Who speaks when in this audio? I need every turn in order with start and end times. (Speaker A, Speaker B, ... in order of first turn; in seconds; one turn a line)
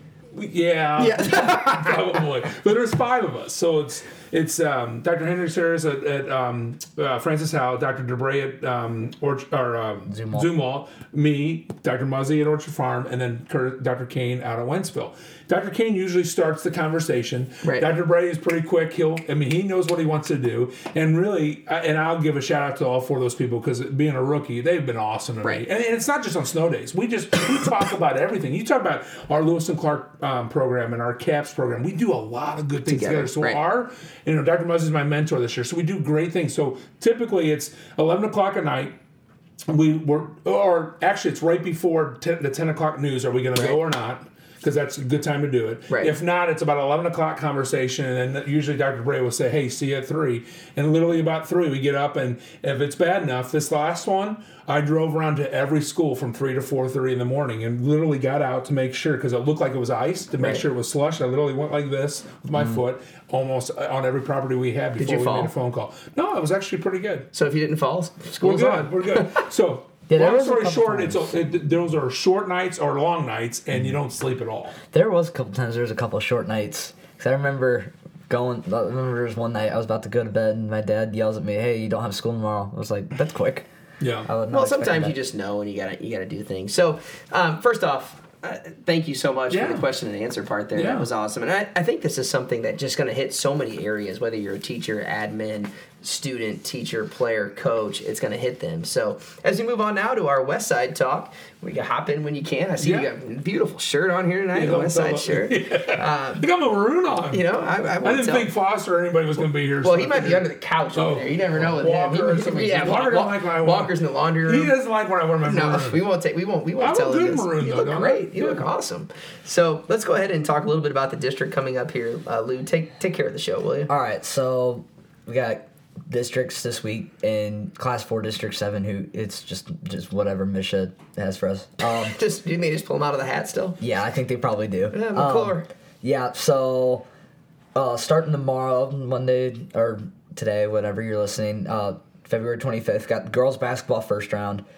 Speaker A: 0.3-39.0
Speaker B: 1.0-2.2
Speaker C: 10.1-10.5
Speaker B: 17.6-17.9
Speaker B: 32.9-33.6
Speaker A: 39.7-67.3
Speaker B: 45.9-46.1
Speaker B: 60.4-60.6
Speaker B: 65.0-65.5
Speaker B: 67.3-69.4
Speaker A: 68.4-74.8
Speaker C: 70.1-71.3
Speaker C: 74.9-83.7
Speaker A: 84.0-84.3
Speaker C: 84.2-85.1
Speaker B: 84.5-106.4
Speaker A: 89.5-89.9
Speaker A: 90.7-91.1
Speaker A: 102.8-103.1
Speaker A: 104.5-107.4
Speaker B: 107.3-108.5
Speaker A: 108.0-116.0
Speaker B: 109.8-114.7
Speaker B: 115.4-123.9
Speaker A: 116.8-118.6
Speaker C: 123.9-132.2
Speaker B: 131.8-133.8
Speaker C: 133.8-137.1
Speaker B: 134.9-135.7
Speaker C: 137.7-144.6